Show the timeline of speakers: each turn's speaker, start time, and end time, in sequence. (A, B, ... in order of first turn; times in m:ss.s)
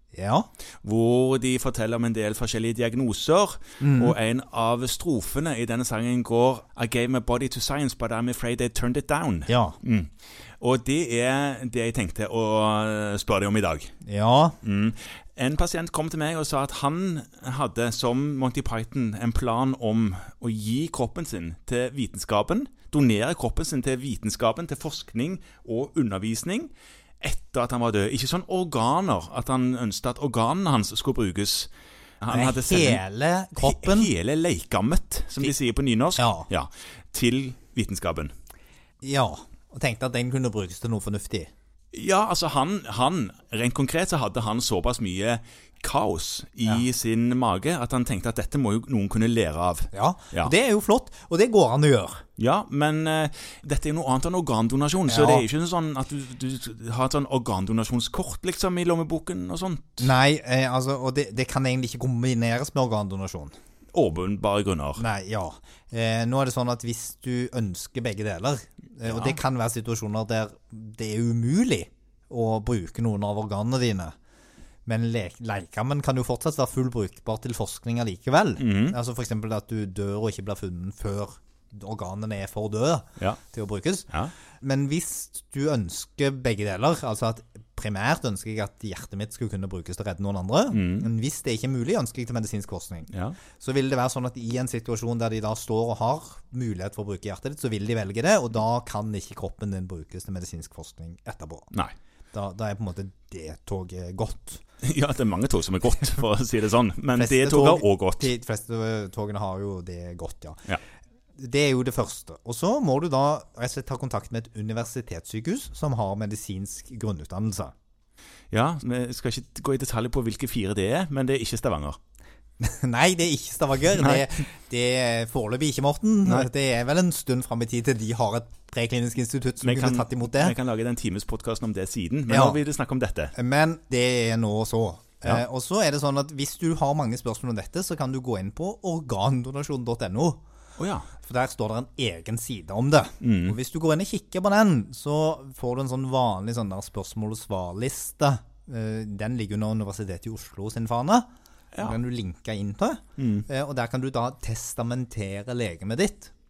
0:00.1-0:00.5 A
0:00.8-0:14.0 B
0:03.8-0:04.2 A
0:09.5-0:09.8 A
0:14.0-0:14.6 A
0:14.6-0:33.0 B
0:32.3-0:34.1 A
0:33.6-0:38.3 B
0:36.2-0:36.5 A
0:39.0-0:41.5 A
0:41.9-0:50.5 B
0:49.9-0:52.2 A
0:52.4-1:00.1 B
0:55.1-0:55.5 A
1:00.0-1:03.6 A
1:03.9-1:05.0 B
1:05.0-1:14.1 A
1:09.1-1:09.4 B
1:14.9-1:41.7 A
1:18.6-1:19.0 B
1:30.7-1:31.1 B
1:33.1-1:33.4 B
1:42.3-1:44.6 A
1:44.8-1:48.3 B
1:47.2-1:50.8 A
1:51.4-1:57.7 A
1:58.5-2:02.0 B
2:02.6-2:10.6 A
2:04.0-2:04.4 B
2:09.6-2:13.3 B
2:12.3-2:12.6 A
2:13.4-2:20.4 A
2:20.8-2:21.1 B
2:21.2-2:31.3 A
2:23.2-2:23.6 B
2:31.8-2:36.3 A
2:33.2-2:33.5 B